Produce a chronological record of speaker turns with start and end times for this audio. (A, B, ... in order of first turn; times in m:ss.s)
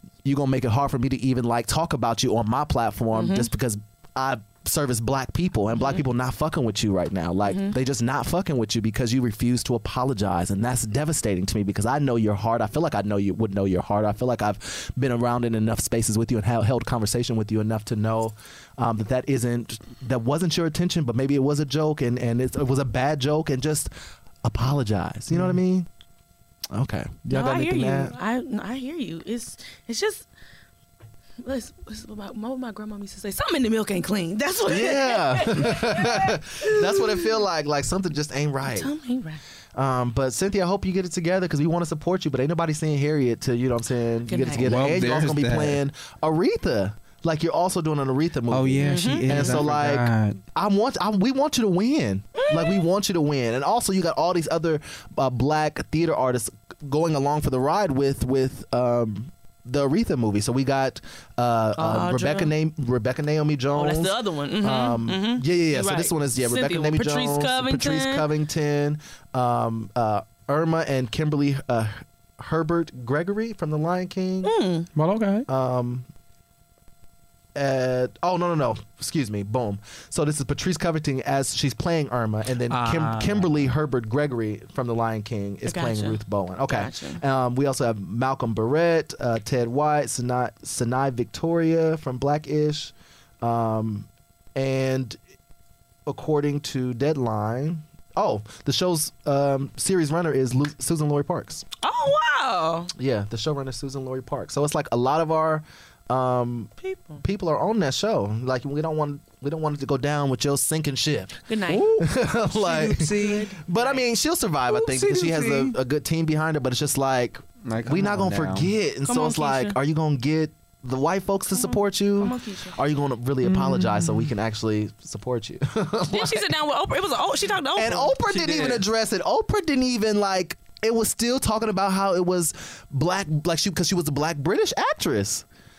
0:00.2-0:23.9 A
0:03.1-0:03.5 B
0:24.4-0:25.9 A
0:25.3-0:25.6 C
0:26.7-0:28.1 A
0:27.3-0:30.2 B
0:31.4-0:37.3 B
0:34.7-0:38.9 A
0:38.7-0:39.4 B
0:39.7-1:14.5 A
0:44.3-0:44.9 B
0:44.6-0:45.8 C
0:48.5-0:50.4 C
0:48.8-0:49.6 B
0:52.4-0:52.8 B
1:01.8-1:02.5 B
1:03.7-1:08.3 B
1:14.4-1:14.9 B
1:15.0-1:15.5 C
1:15.5-1:16.1 A
1:17.5-1:35.2 A
1:22.7-1:23.7 C
1:25.6-1:27.2 B
1:36.1-1:41.6 A
1:41.8-1:42.9 B
1:43.0-1:51.4 A
1:46.8-1:47.2 B
1:51.5-1:52.0 B
1:51.7-1:53.5 C
1:52.0-2:06.5 A
1:52.6-1:54.0 B
1:54.7-1:55.8 C
1:57.6-1:58.7 C
1:59.0-1:59.8 B
2:01.6-2:02.8 B
2:03.4-2:04.3 C
2:06.1-2:08.8 B
2:07.7-2:15.4 A